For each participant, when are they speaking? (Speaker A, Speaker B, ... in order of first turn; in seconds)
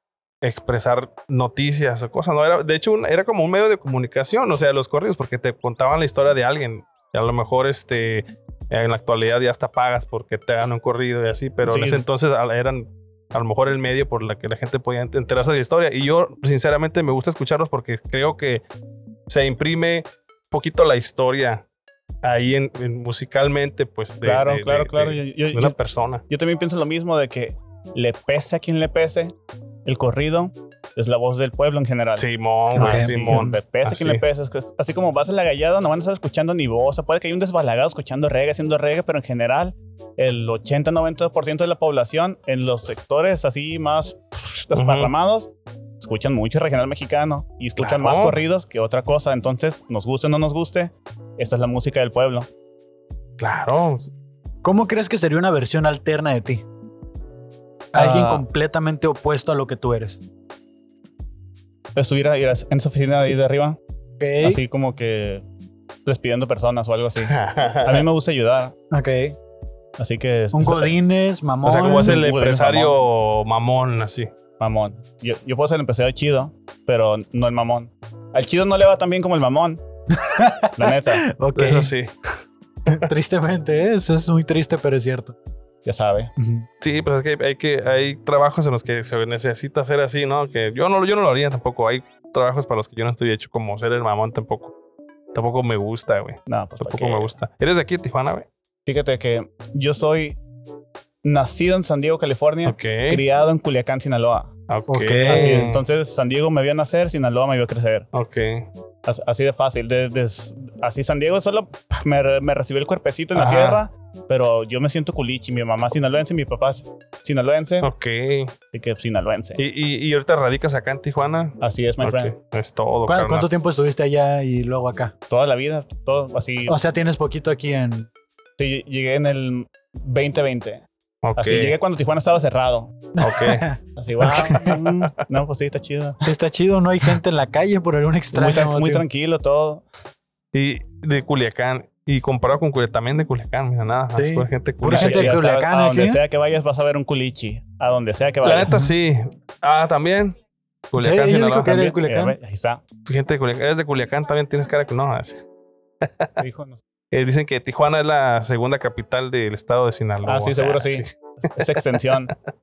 Speaker A: 0.4-18.6, 19.3-21.6, 22.2-26.2, 32.2-34.2, 44.7-45.1, 47.8-48.4, 53.4-54.1, 67.2-68.0, 71.6-74.3, 81.5-82.1, 86.8-94.7, 95.3-98.5, 102.6-103.2, 104.7-105.8, 108.1-108.7, 113.3-113.8, 117.8-118.5, 119.6-123.5, 131.2-131.7, 133.2-133.7, 134.4-135.1, 140.5-145.4, 148.4-150.4, 150.9-151.8, 153.1-155.4, 156.0-156.3, 157.1-161.7
Speaker B: 11.6-12.0, 24.2-25.8, 26.3-52.5, 58.0-58.4, 61.9-63.8, 64.4-65.4, 66.0-68.7, 70.0-70.9, 71.9-73.0, 74.6-79.8, 80.8-81.2, 85.8-86.3, 96.5-97.4, 98.8-100.4, 101.2-104.5, 105.2-108.1, 109.0-117.9, 118.7-119.6, 121.6-122.3, 125.3-126.7, 128.6-130.8, 131.3-133.1, 133.9-136.3, 138.3-139.8, 144.9-148.8, 151.7-152.8, 156.4-156.8, 160.2-162.3
Speaker C: 32.8-33.5, 54.6-56.6, 57.9-60.2, 64.2-64.6, 68.9-69.3, 70.5-72.2, 80.1-81.9, 82.9-85.3, 86.4-86.7, 104.9-105.7, 123.0-125.1, 126.7-128.1, 133.2-134.8, 136.2-139.0, 144.2-146.2, 151.0-152.3